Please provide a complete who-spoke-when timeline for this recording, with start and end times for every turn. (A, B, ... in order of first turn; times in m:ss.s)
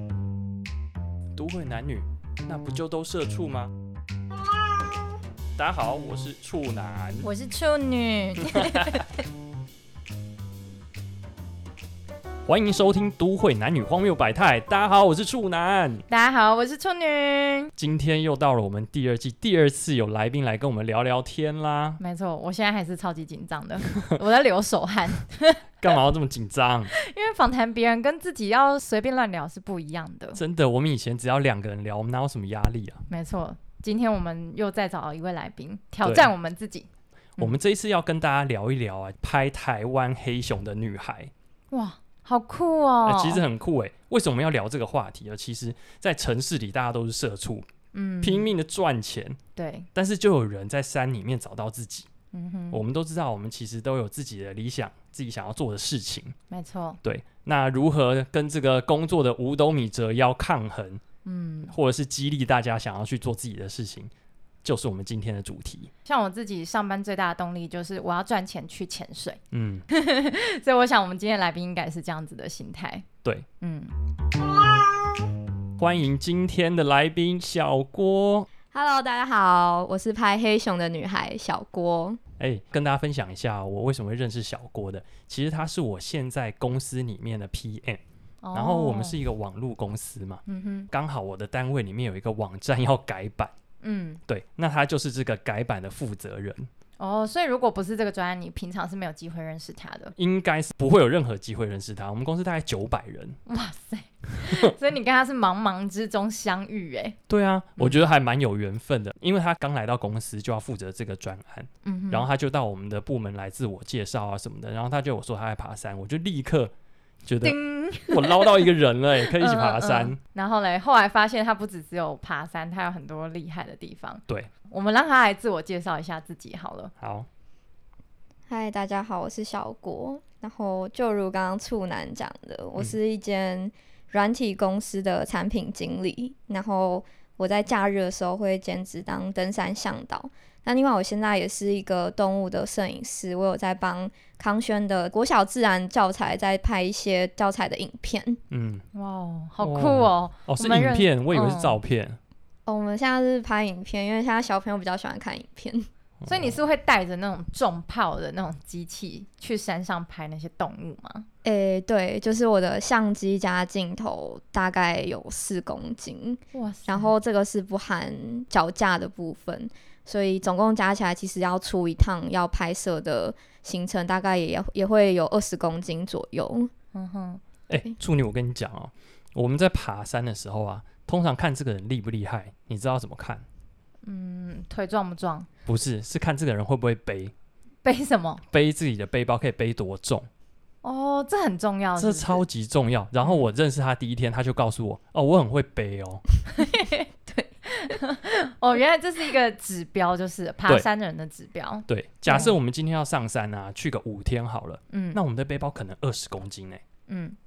0:01.4-0:03.7 A
0:05.6-0:07.3 A
0:07.2-0:09.1 B
0:08.4-0:09.0 A
0:12.5-0:16.1 A
0:16.1-0:17.7 B
0:17.8-0:22.0 A
0:22.0-0:25.7 B
0:25.8-0:26.9 A
0:27.0-0:30.4 B
0:30.4-0:33.0 A
0:33.1-0:37.6 B
0:36.0-0:36.3 A
0:37.4-0:41.3 A
0:41.7-0:43.4 B
0:43.0-0:47.7 A
0:47.9-0:48.5 B
0:48.2-0:49.4 A
0:49.6-0:49.9 B
0:50.0-0:52.1 A
0:52.3-0:52.8 B
0:52.7-0:56.4 A
0:56.5-0:57.0 B
0:57.0-1:01.0 A
1:01.2-1:01.8 B
1:01.7-1:04.1 A
1:04.6-1:05.9 A
1:06.0-1:13.1 B
1:09.5-1:09.8 A
1:13.6-1:13.9 B
1:15.8-1:18.5 A
1:18.7-1:22.2 C
1:22.4-1:28.0 A
1:28.4-1:29.2 B
1:28.5-1:33.5 A
1:30.5-1:30.9 B
1:33.8-1:34.2 B
1:34.3-1:36.7 A
1:37.0-1:40.2 B
1:40.2-1:43.4 A
1:43.5-1:47.2 B
1:47.3-1:56.7 A
1:51.8-1:52.3 B
1:57.2-2:00.2 A
1:57.4-1:58.6 B
1:59.2-2:06.9 B
2:07.0-2:07.3 A
2:08.5-2:28.4 C
2:28.5-2:28.8 A
2:28.9-2:31.8 B
2:29.6-2:32.2 A
2:32.7-2:35.9 C
2:36.2-2:36.6 A
2:36.3-2:41.3 B
2:41.4-2:56.7 C
2:46.5-2:47.1 B
2:56.9-2:57.4 B
2:57.7-3:03.4 A
3:04.0-3:05.5 B
3:05.7-3:07.3 A
3:07.8-3:08.4 B
3:08.5-3:10.3 A
3:10.8-3:12.4 B
3:12.0-3:16.2 A
3:16.5-3:17.1 B
3:17.3-3:17.9 C
3:17.7-3:22.5 B
3:21.9-3:26.8 A
3:24.9-3:25.2 B
3:27.1-3:27.4 B